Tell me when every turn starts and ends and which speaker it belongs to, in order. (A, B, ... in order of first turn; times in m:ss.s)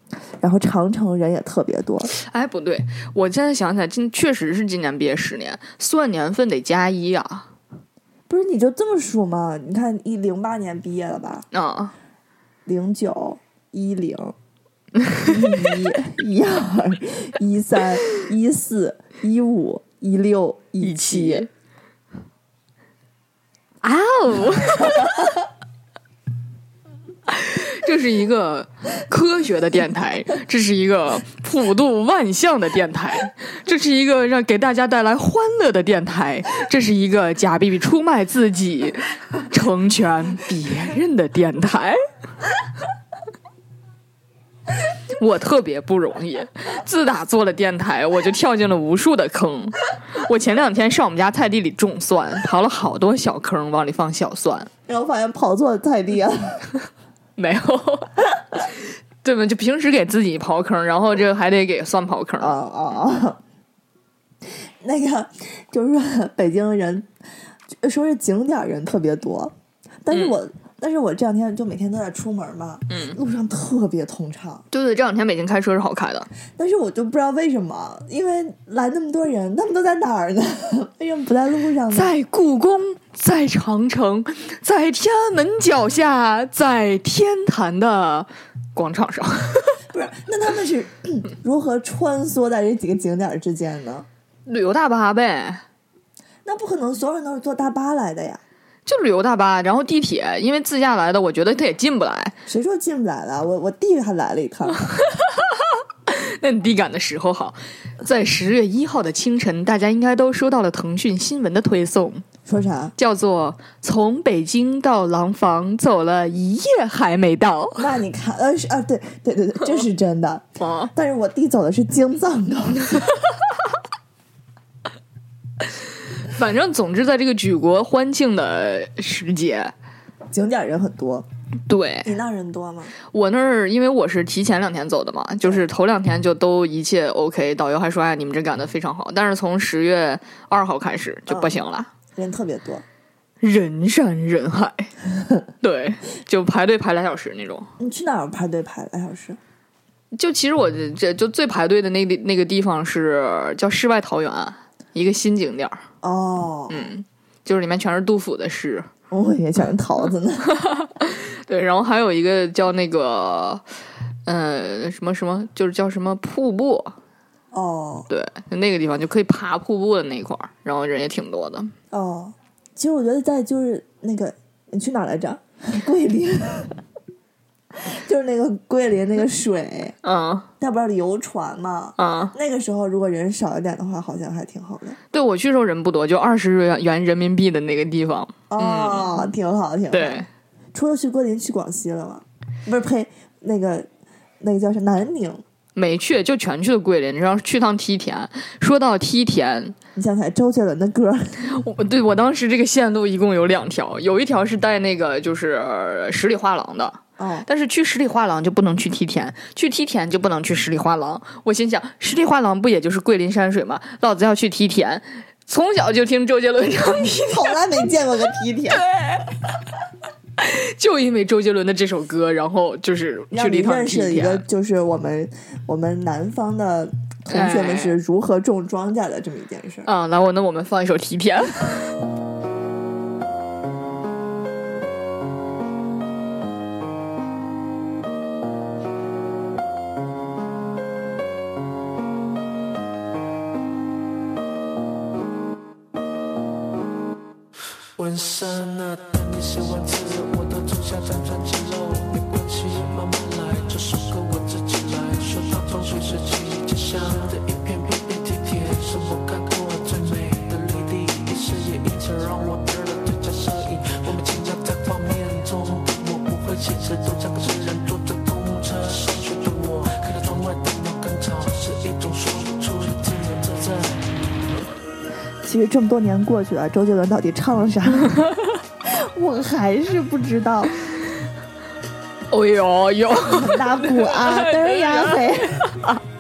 0:00.4-0:02.1 A
0:02.1-0:07.5 B
0:08.3-0:11.5 A
0:11.5-0:11.9 B
0:12.7-0:14.4 A
0:15.0-0:15.4 B
0:15.2-0:21.5 A
0:20.8-0:21.5 B
0:23.8-0:25.3 B
0:27.3-0:42.0 B
0:45.2-0:54.7 B
0:54.9-0:56.6 A
0:57.4-0:58.7 B
0:59.2-1:02.6 B
1:02.4-1:03.4 A
1:04.8-1:07.1 A
1:07.8-1:09.5 A
1:10.0-1:14.6 A
1:10.1-1:10.4 B
1:12.9-1:13.2 B
1:14.7-1:16.3 B
1:16.6-1:22.1 A
1:21.9-1:29.8 B
1:29.9-1:34.1 A
1:34.5-1:35.6 B
1:36.4-1:38.4 A
1:38.9-1:42.3 B
1:42.5-1:45.0 A
1:45.1-1:52.2 B
1:52.5-1:52.9 A
1:53.0-1:57.9 B
1:57.8-2:03.1 A
2:00.6-2:00.9 B
2:06.2-2:09.7 B
2:10.3-2:11.3 A
2:11.7-2:12.1 B
2:12.0-2:12.9 A
2:13.1-2:21.9 B
2:21.3-2:21.6 A
2:22.2-2:22.8 A
2:23.4-2:24.9 B
2:25.6-2:27.7 B
2:27.8-2:29.4 A
2:30.1-2:35.8 B
2:36.0-2:36.9 A
2:36.7-2:38.9 B
2:39.1-2:40.6 A
2:40.5-2:43.6 B
2:44.3-2:47.0 B
2:47.5-2:48.1 A
2:48.1-2:51.7 B
2:51.9-2:56.8 A
2:57.8-3:00.0 A
3:00.0-3:00.5 B
3:00.6-3:05.0 A
3:02.0-3:02.3 B
3:05.1-3:09.3 B
3:08.5-3:13.9 A
3:09.9-3:10.3 B
3:14.4-3:15.4 A
3:15.8-3:19.8 B
3:20.0-3:21.5 A
3:21.4-3:37.6 B
3:27.2-3:27.5 A
3:37.3-3:38.9 A
3:38.7-3:39.4 B
3:40.4-3:44.4 B
3:43.3-3:49.9 A
3:47.3-3:48.0 B
3:49.8-3:52.0 B
4:08.0-4:34.1 C
4:35.4-4:38.2 A
4:38.9-4:40.8 A
4:42.3-4:46.0 B
4:43.2-4:45.7 A